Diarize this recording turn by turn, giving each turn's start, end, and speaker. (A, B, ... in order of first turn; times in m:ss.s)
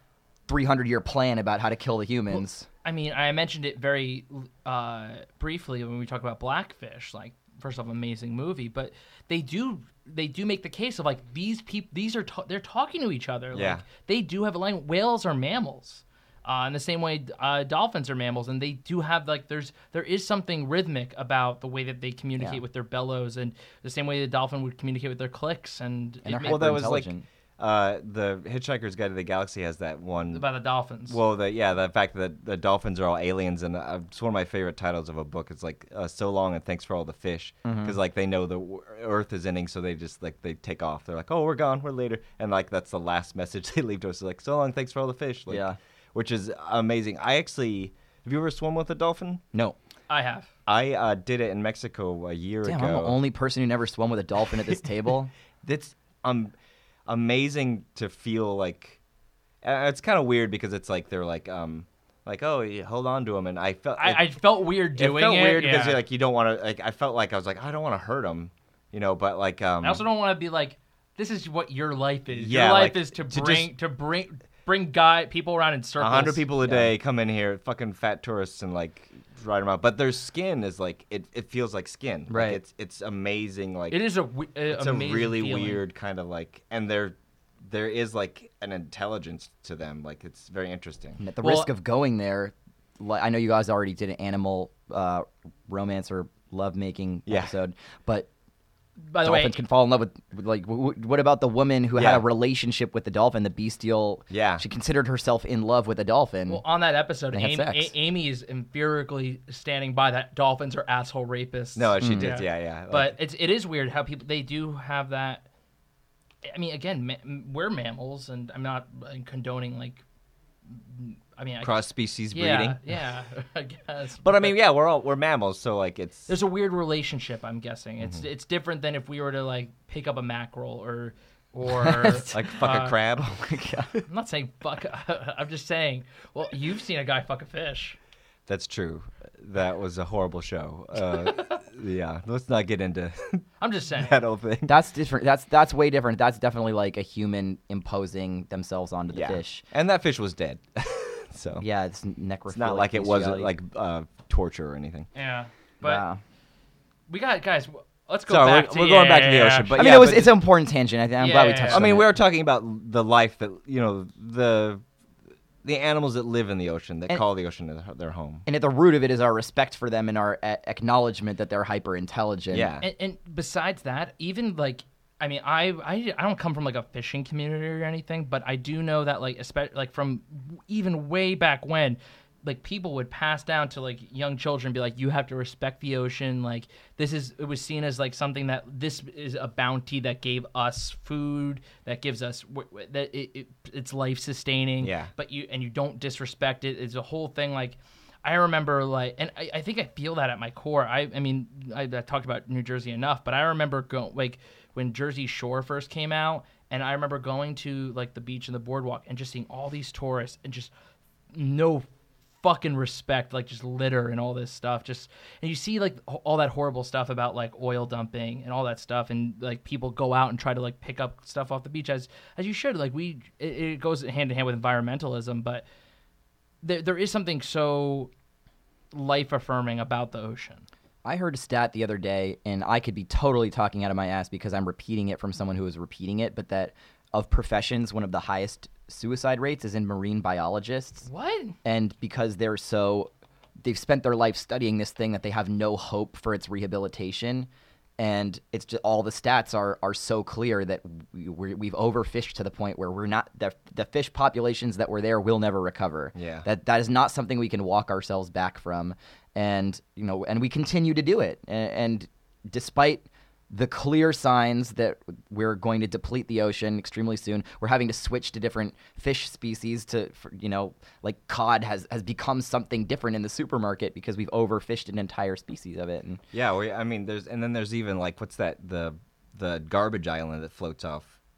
0:00.5-0:02.7 A
0:02.3-0:26.5 B
0:13.5-0:13.8 C
0:22.4-0:22.6 A
0:26.2-0:27.2 A
0:26.4-0:30.5 C
0:30.3-0:31.2 B
0:31.1-0:49.4 C
0:37.6-0:38.0 A
0:45.5-0:45.8 A
0:50.1-0:50.5 B
0:50.7-0:53.2 C
0:52.6-0:55.3 A
0:55.6-0:56.5 C
0:57.1-0:59.0 C
0:59.6-1:04.3 C
1:04.0-1:06.0 B
1:04.9-1:10.0 C
1:09.8-1:16.4 B
1:12.3-1:13.7 C
1:16.0-1:24.0 C
1:16.6-1:16.9 A
1:22.3-1:22.6 A
1:23.9-1:25.8 B
1:24.7-1:31.2 C
1:31.2-1:38.3 A
1:31.4-1:31.7 B
1:37.3-1:37.5 C
1:39.0-1:39.6 B
1:39.2-1:46.6 A
1:41.9-1:42.2 C
1:44.3-1:44.6 C
1:46.5-1:55.4 B
1:47.3-1:47.9 A
1:51.8-1:53.2 C
1:52.0-1:52.4 A
1:56.4-2:00.0 B
2:00.7-2:04.5 B
2:01.6-2:02.8 C
2:04.2-2:06.3 C
2:06.3-2:13.0 B
2:11.7-2:12.4 A
2:12.3-2:14.0 C
2:13.2-2:13.9 A
2:14.1-2:18.0 B
2:18.5-2:24.7 C
2:23.6-2:24.2 B
2:24.6-2:29.6 A
2:29.1-2:31.6 C
2:31.6-2:33.5 A
2:32.5-2:35.1 C
2:35.1-2:36.0 B
2:35.8-2:36.2 A
2:37.1-2:39.8 B
2:38.3-2:40.4 C
2:39.7-2:42.1 A
2:41.2-2:41.8 B
2:41.7-2:44.8 C
2:45.6-2:48.4 C
2:48.4-2:52.7 A
2:52.5-2:52.9 C
2:52.8-3:30.7 B
3:14.8-3:15.1 C
3:31.3-3:31.9 B
3:32.4-3:45.6 B
3:46.6-3:48.1 B
3:48.9-3:50.7 B
3:51.0-4:01.1 A
4:01.0-4:01.6 B
4:01.6-4:03.1 A
4:03.6-4:36.2 A
4:16.1-4:16.4 C
4:36.3-4:41.2 C